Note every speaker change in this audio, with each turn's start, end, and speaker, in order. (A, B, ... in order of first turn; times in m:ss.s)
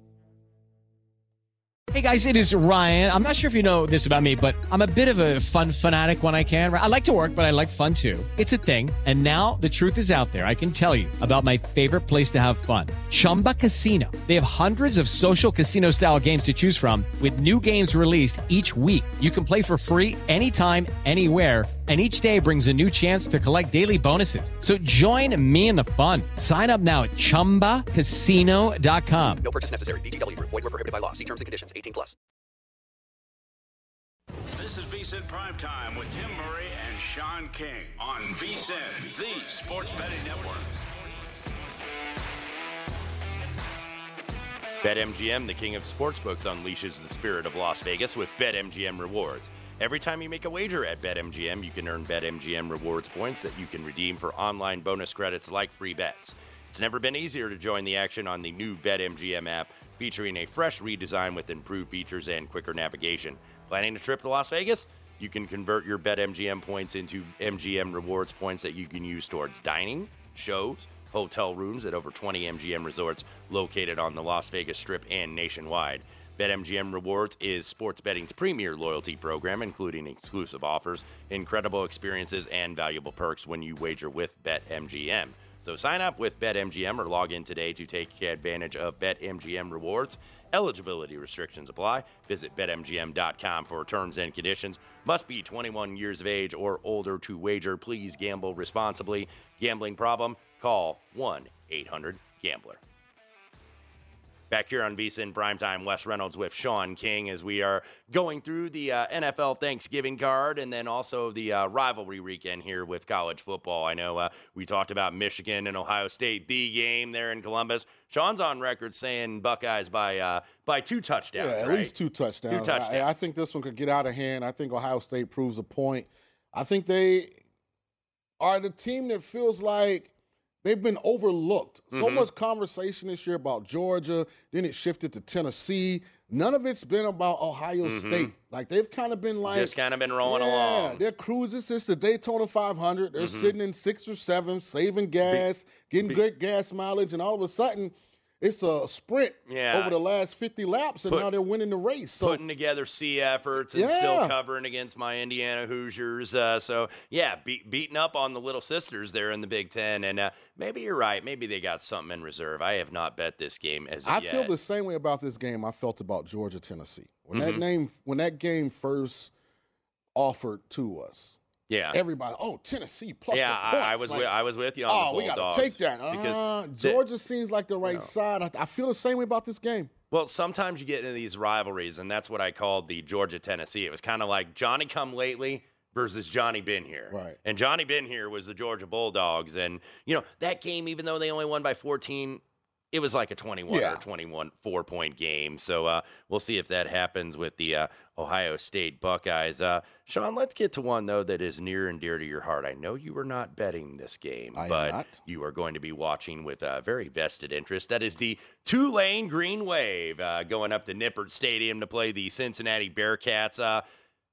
0:01.9-0:29.4 A
0:29.4-0:32.2 B
0:34.5-0:40.9 C
0:44.8-1:42.8 D
1:44.5-2:01.9 D
2:01.4-2:07.4 E
2:02.5-2:03.1 D
2:08.4-2:10.1 E
2:10.6-2:32.4 E
2:11.9-2:12.3 D
2:17.8-2:18.3 D
2:19.5-2:21.0 D
2:23.2-2:23.5 D
2:29.5-2:30.0 D
2:32.2-2:44.5 D
2:33.7-2:34.3 E
2:44.0-2:49.3 E
2:47.3-2:47.6 D
2:50.2-2:51.4 E
2:51.7-2:52.0 D
2:51.9-2:54.3 E
2:53.3-2:57.0 D
2:54.9-2:59.9 E
2:57.8-2:58.1 D
3:00.1-3:33.8 D
3:07.1-3:07.4 E
3:13.7-3:14.0 E
3:24.5-3:25.2 E